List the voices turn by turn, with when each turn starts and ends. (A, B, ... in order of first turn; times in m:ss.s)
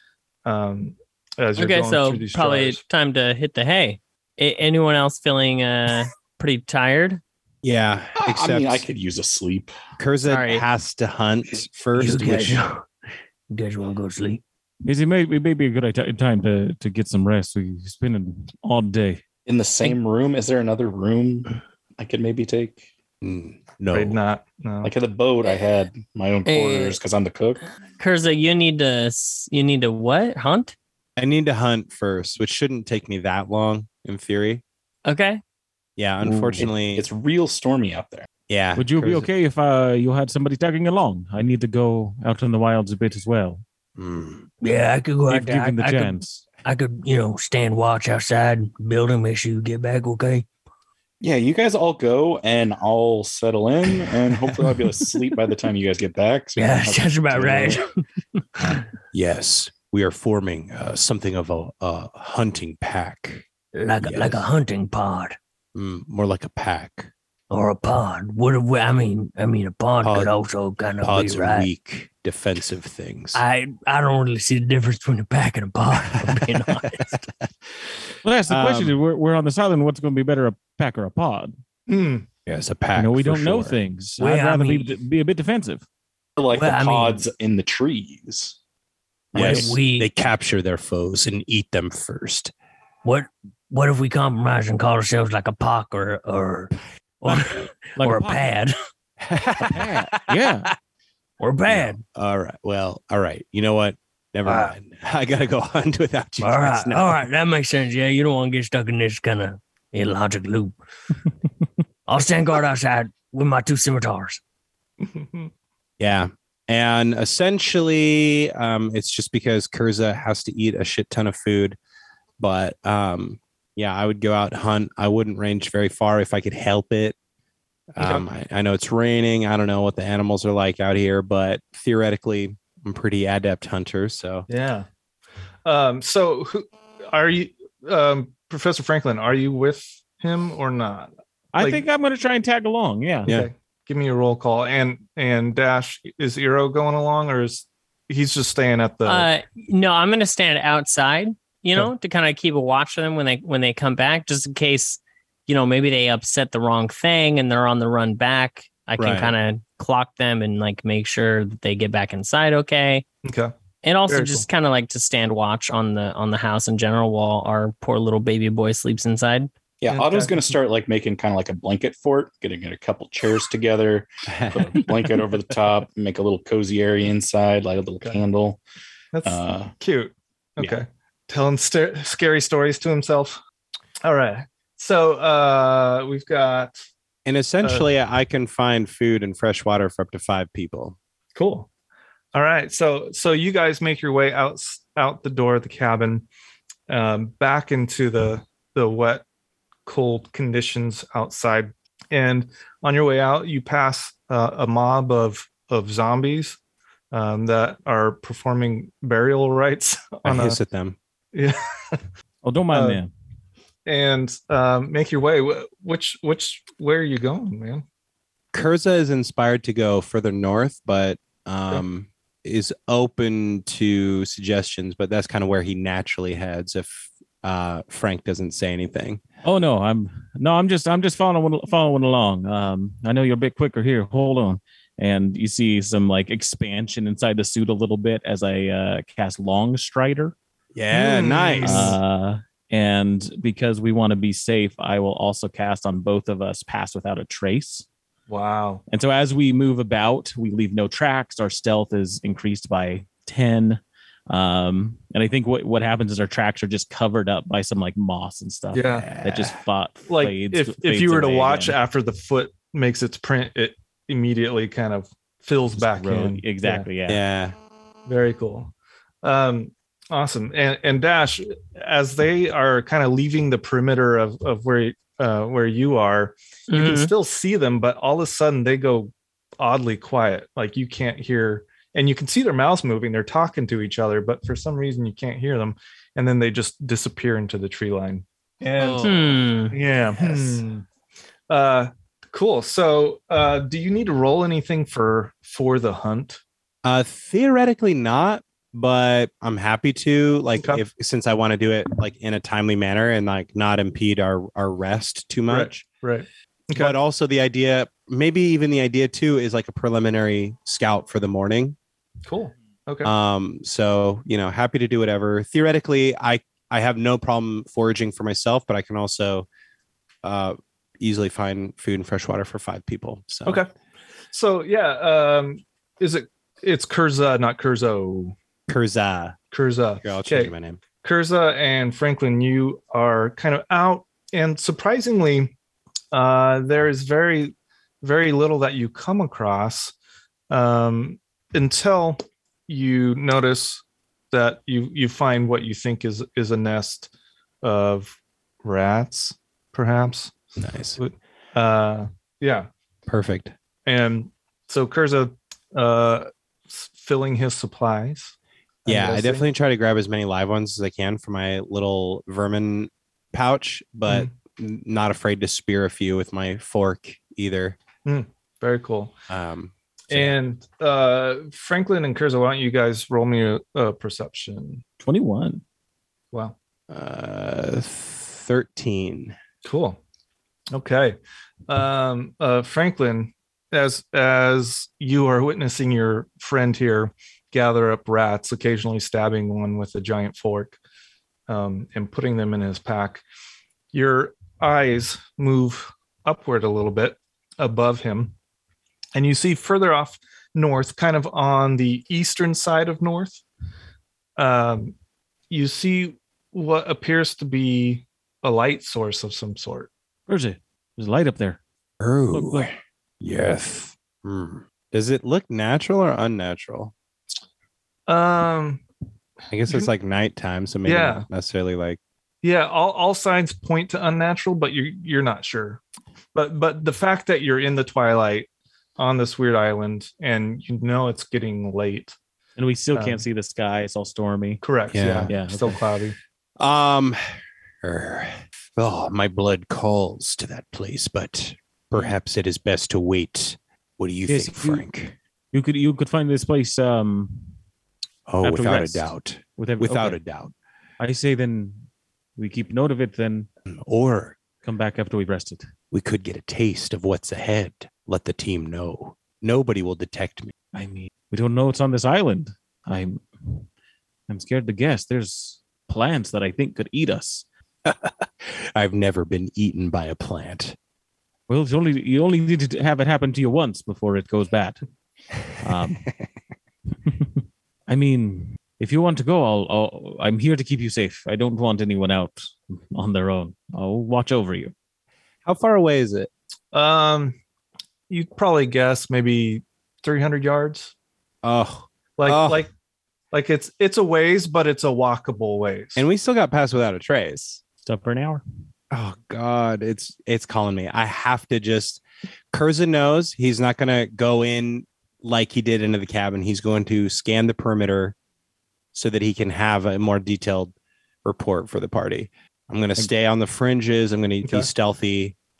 0:00.4-0:02.8 A
0:01.6-0:07.2 B
0:07.6-0:08.8 C
0:08.2-0:09.7 D
0:10.0-0:12.6 C
0:10.2-0:10.6 B
0:12.0-0:12.8 E
0:13.5-0:14.4 E
0:14.8-0:19.2 F
0:19.4-0:22.8 D
0:23.2-0:24.2 C
0:23.9-0:24.9 A
0:24.8-0:27.6 D
0:26.4-0:27.0 B
0:28.0-0:30.7 B
0:31.2-0:34.6 C
0:35.0-0:35.4 B
0:36.0-0:37.1 C
0:36.2-0:38.3 D
0:38.5-0:39.3 C
0:38.8-0:43.6 F
0:44.0-0:44.5 C
0:44.6-0:50.5 E
0:45.3-0:46.4 F
0:51.2-0:57.8 D
0:56.6-0:57.9 E
0:59.1-1:03.4 C
1:03.7-1:05.4 E
1:04.0-1:04.4 C
1:05.7-1:07.1 C
1:07.5-1:11.7 E
1:10.0-1:10.3 C
1:11.0-1:13.4 C
1:13.3-1:17.1 E
1:16.1-1:17.2 C
1:18.2-1:21.5 F
1:18.5-1:19.0 C
1:21.9-1:22.2 A
1:22.4-1:23.8 C
1:23.0-1:25.8 F
1:24.2-1:24.9 E
1:26.4-1:28.6 D
1:26.5-1:27.2 E
1:29.3-1:29.8 D
1:29.3-1:30.1 E
1:29.3-1:32.5 C
1:33.0-1:38.7 E
1:38.0-1:38.5 F
1:39.2-1:40.4 C
1:39.7-1:40.7 F
1:41.4-1:42.0 E
1:41.7-1:47.2 C
1:44.4-1:44.7 E
1:46.4-1:50.7 E
1:52.1-1:54.4 E
1:55.0-1:55.5 A
1:56.0-2:01.8 C
2:02.4-2:07.2 C
2:07.9-2:14.5 C
2:08.0-2:08.2 A
2:14.5-2:14.9 A
2:15.6-2:21.8 A
2:21.5-2:23.3 F
2:23.2-2:23.5 C
2:23.2-2:29.3 A
2:29.0-2:43.0 B
2:39.0-2:39.3 C
2:43.2-2:43.5 A
2:43.8-2:49.5 B
2:44.1-2:44.4 A
2:49.8-2:58.6 D
2:49.9-2:50.4 A
2:54.3-2:54.9 C
2:59.1-3:03.4 A
2:59.2-2:59.7 D
3:04.0-3:06.8 A
3:07.2-3:11.0 C
3:11.3-3:11.7 A
3:12.3-3:16.2 A
3:16.9-3:19.2 A
3:19.8-3:26.6 A
3:27.1-3:30.6 A
3:30.2-3:31.0 C
3:31.3-3:32.0 A
3:32.4-3:33.1 F
3:32.7-3:33.0 A
3:33.8-3:37.8 A
3:38.5-3:49.2 C
3:49.4-4:00.3 F
4:00.7-4:02.0 C
4:00.9-4:02.0 A
4:01.6-4:07.8 F
4:08.3-4:08.8 A
4:08.9-4:21.8 F
4:18.7-4:19.1 A
4:19.0-4:19.6 C
4:20.1-4:26.9 A
4:25.7-4:27.2 F
4:27.1-4:27.5 C
4:28.1-4:28.7 A
4:29.2-4:50.8 A
4:36.7-4:37.1 B
4:48.9-4:49.8 B
4:50.3-4:50.6 B
4:51.5-4:56.4 A
4:56.8-5:05.8 C
5:05.5-5:06.9 A
5:06.7-5:11.8 C
5:12.2-5:13.1 A
5:13.0-5:19.5 C
5:20.2-5:23.6 C
5:24.3-5:28.3 A
5:28.7-5:29.4 C
5:29.5-5:35.5 A
5:30.0-5:30.8 C
5:36.1-5:39.9 A
5:40.5-5:47.1 A
5:47.6-5:50.3 A
5:50.6-5:51.0 C
5:51.0-5:52.7 A
5:53.1-5:53.5 C
5:53.8-5:58.3 A
5:58.8-5:59.5 A
5:58.8-6:07.8 C
6:04.1-6:04.3 A
6:08.0-6:09.1 A
6:09.3-6:10.4 C
6:10.1-6:14.8 A
6:15.0-6:15.6 F
6:16.9-6:19.4 C
6:19.6-6:20.0 A
6:20.7-6:21.2 A
6:21.7-6:30.8 A
6:31.5-6:33.2 A
6:33.9-6:38.3 A
6:39.1-6:43.4 A
6:44.4-6:44.9 A
6:45.5-6:49.9 A
6:50.3-6:51.6 F
6:52.0-6:56.9 C
6:52.3-6:52.7 F
6:58.1-6:58.8 A
6:59.5-7:02.0 C
7:00.8-7:01.2 A
7:02.4-7:05.8 A
7:06.3-7:12.2 A
7:12.6-7:14.6 F
7:12.9-7:13.2 A
7:14.6-7:16.2 A
7:14.9-7:15.3 C
7:15.3-7:15.8 F
7:16.6-7:25.2 C
7:24.3-7:24.8 F
7:25.5-7:27.5 F
7:28.3-7:30.5 C
7:28.4-7:30.2 F
7:31.0-7:31.8 F
7:32.4-7:33.5 F
7:33.7-7:34.4 C
7:34.6-7:35.7 F
7:35.9-7:40.5 C
7:40.7-7:43.6 F
7:44.3-7:47.4 F
7:47.8-7:50.8 C
7:51.5-7:54.8 F
7:55.6-7:56.1 F
7:57.0-8:04.7 F
8:05.4-8:06.3 C
8:06.7-8:07.4 A
8:08.1-8:10.9 A
8:11.4-8:12.7 C
8:12.2-8:12.7 A
8:13.3-8:16.0 A
8:16.0-8:17.6 C
8:17.8-8:18.4 F
8:18.9-8:28.1 C
8:28.9-8:30.7 C
8:31.2-8:35.3 C